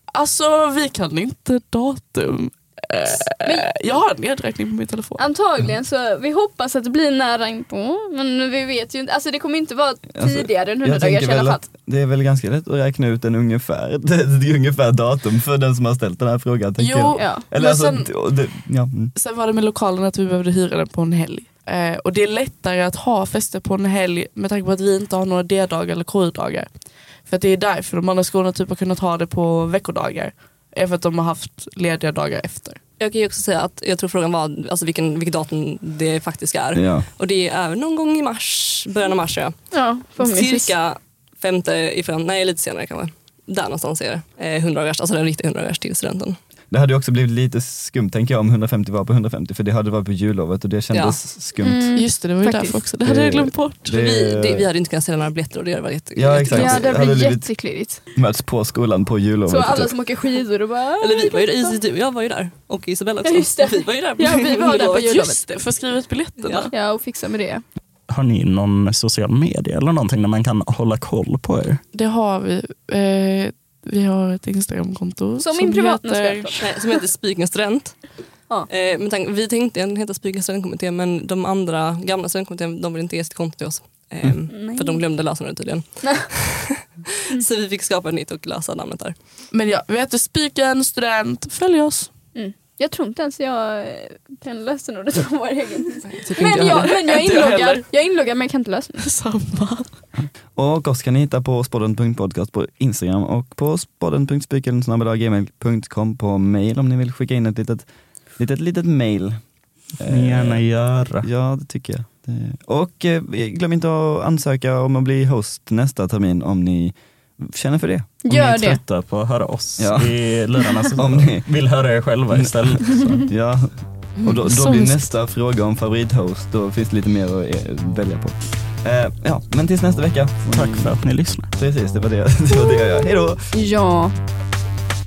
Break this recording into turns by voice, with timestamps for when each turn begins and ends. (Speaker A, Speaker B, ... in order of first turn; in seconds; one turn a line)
Speaker A: 0.1-5.2
Speaker B: 3.4-3.8
Speaker B: 5.2-11.6
Speaker C: 10.1-19.1
Speaker A: 16.8-18.1
Speaker B: 17.2-17.5
Speaker A: 19.1-32.8
Speaker D: 33.0-39.6
Speaker C: 36.8-37.1
Speaker B: 39.7-40.7
Speaker D: 40.1-46.4
Speaker C: 46.7-51.9
Speaker D: 50.9-51.2
Speaker B: 51.6-52.8
Speaker A: 52.0-54.0
Speaker C: 53.0-54.7
Speaker D: 53.9-56.9
Speaker C: 56.2-57.5
Speaker B: 56.5-58.0
Speaker C: 58.1-60.0
Speaker B: 59.5-61.8
Speaker D: 61.0-65.0
Speaker B: 63.3-65.4
Speaker A: 64.7-66.7
Speaker D: 66.4-66.7
Speaker B: 66.7-67.6
Speaker E: 68.1-71.8
Speaker A: 71.9-76.7
Speaker B: 75.4-76.6
Speaker D: 76.6-78.2
Speaker D: 78.7-89.2
Speaker B: 84.5-85.0
Speaker A: 89.5-92.1
Speaker B: 92.3-99.0
Speaker D: 96.1-97.0
Speaker A: 96.3-97.9
Speaker A: 99.0-99.9
Speaker C: 100.6-109.4
Speaker C: 110.0-118.1
Speaker E: 110.0-111.3
Speaker B: 118.2-118.8
Speaker E: 118.3-123.3
Speaker C: 119.8-120.3
Speaker C: 121.0-121.5
Speaker C: 122.3-130.9
Speaker A: 124.2-125.0
Speaker E: 130.5-131.5
Speaker C: 131.6-133.5
Speaker B: 133.5-134.1